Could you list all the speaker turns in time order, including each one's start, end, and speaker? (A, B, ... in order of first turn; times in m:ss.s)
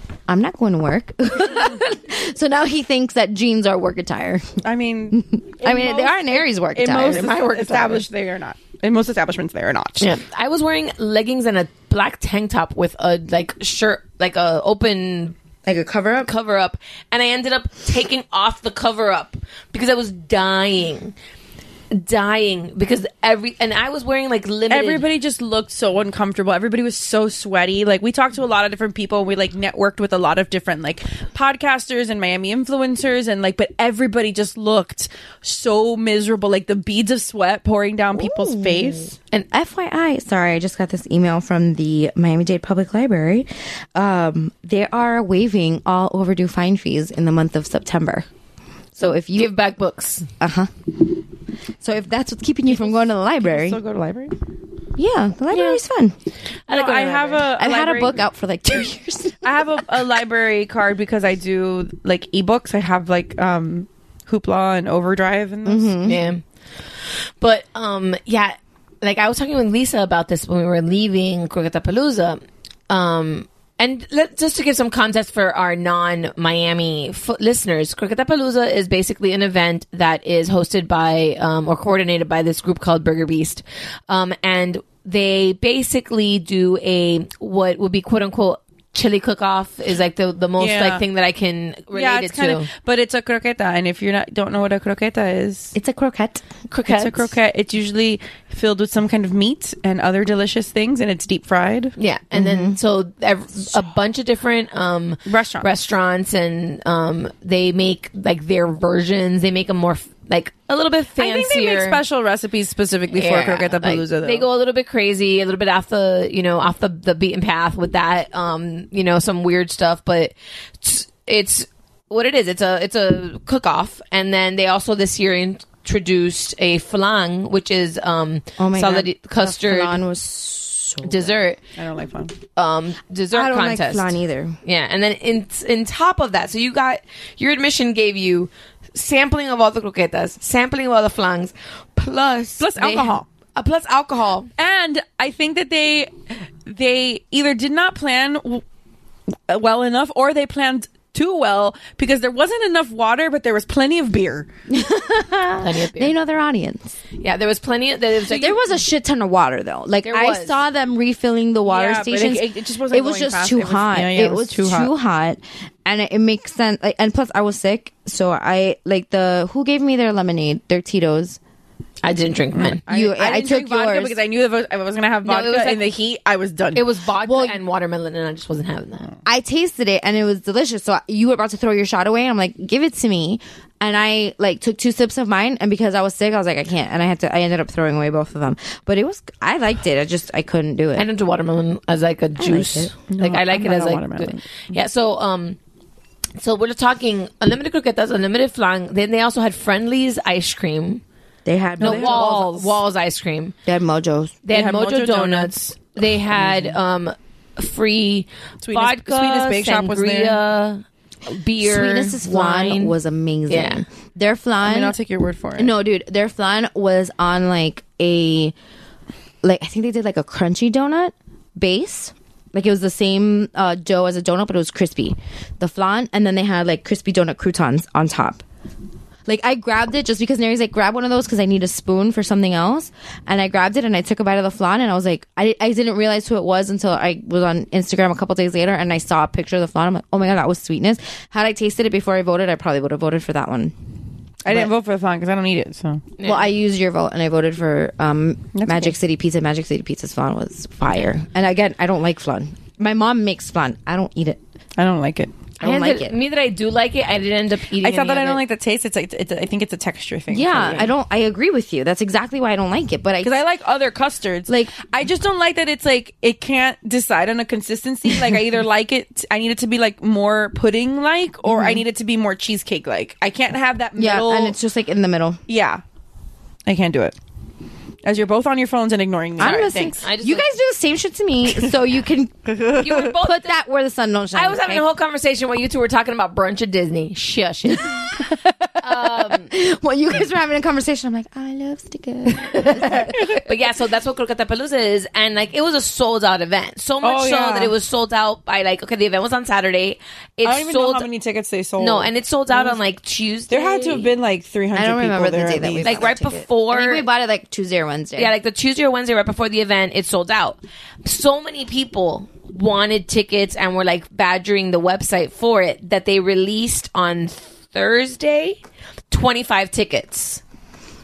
0:00.3-0:04.6 A
0:04.6-0:10.1 B
0:05.1-0:07.3 A
0:06.8-0:08.1 C
0:10.0-0:15.4 C
0:15.7-0:16.3 A
0:16.2-0:21.1 C
0:21.9-0:25.1 C
0:24.7-0:39.2 B
0:38.2-0:48.3 A
0:49.0-0:49.5 A
0:49.3-0:50.3 C
0:50.4-0:51.0 A
0:51.8-0:53.8 A
0:52.7-0:54.3 B
0:55.0-0:56.2 A
0:56.7-0:57.6 C
0:56.7-0:58.2 B
0:57.6-0:59.6 A
0:59.4-1:06.0 B
1:05.6-1:06.2 A
1:06.0-1:06.4 C
1:07.4-1:32.7 C
1:30.6-1:31.0 B
1:31.9-1:35.7 B
1:35.8-1:36.4 A
1:36.7-1:37.3 C
1:36.9-1:41.9 B
1:42.0-1:52.0 C
1:42.3-1:42.8 A
1:45.3-1:45.7 B
1:51.2-1:54.5 B
1:53.1-2:10.0 C
2:08.6-2:11.4 A
2:11.0-2:11.6 C
2:11.8-2:12.3 B
2:12.6-2:14.1 C
2:13.3-2:14.6 A
2:14.6-2:24.5 C
2:22.6-2:23.3 B
2:24.6-2:26.1 B
2:26.7-2:28.6 B
2:29.5-2:34.5 B
2:34.7-2:37.0 A
2:35.6-2:36.2 C
2:37.2-2:38.8 C
2:38.2-2:51.4 A
2:40.0-2:40.6 C
2:41.6-2:44.9 B
2:52.0-2:52.8 C
2:52.6-2:56.8 B
2:52.9-2:54.2 A
2:55.2-2:56.0 C
2:56.7-2:59.1 C
2:57.2-2:57.6 A
2:59.3-3:11.1 A
3:11.0-3:15.6 C
3:12.4-3:12.9 A
3:13.1-3:14.4 B
3:16.4-3:21.0 C
3:21.4-3:22.4 A
3:21.8-3:22.8 B
3:21.8-3:23.6 C
3:23.7-3:24.4 A
3:24.4-3:33.0 C
3:24.5-3:25.7 B
3:26.3-3:26.8 B
3:28.6-3:30.4 B
3:31.6-3:35.0 A
3:33.5-3:33.8 C
3:34.6-3:35.7 B
3:35.6-3:38.6 A
3:39.4-3:48.4 A
3:49.3-4:03.8 A
4:04.4-4:06.0 B
4:04.5-4:04.7 A
4:06.2-4:06.5 C
4:06.2-4:14.4 A
4:08.6-4:08.9 B
4:14.8-4:15.4 B
4:15.6-4:16.2 A
4:15.6-4:18.4 C
4:17.8-4:20.9 B
4:20.3-4:23.3 A
4:23.2-4:34.6 B
4:24.5-4:24.8 A
4:31.5-4:31.8 A
4:34.0-4:35.4 A
4:35.5-4:35.8 B
4:36.7-4:37.2 B
4:38.0-4:40.0 B
4:39.4-4:42.4 A
4:39.4-4:40.5 C
4:42.5-4:43.1 B
4:42.8-4:43.6 C
4:43.2-4:44.9 A
4:44.3-4:48.2 C
4:48.8-4:49.5 C
4:48.9-4:53.2 A
4:52.6-5:01.1 C
4:57.0-4:57.7 B
5:00.4-5:02.8 B
5:01.8-5:04.1 C
5:03.5-5:06.1 B
5:04.7-5:08.3 A
5:05.8-5:07.0 C
5:08.2-5:18.6 C
5:19.1-5:20.4 C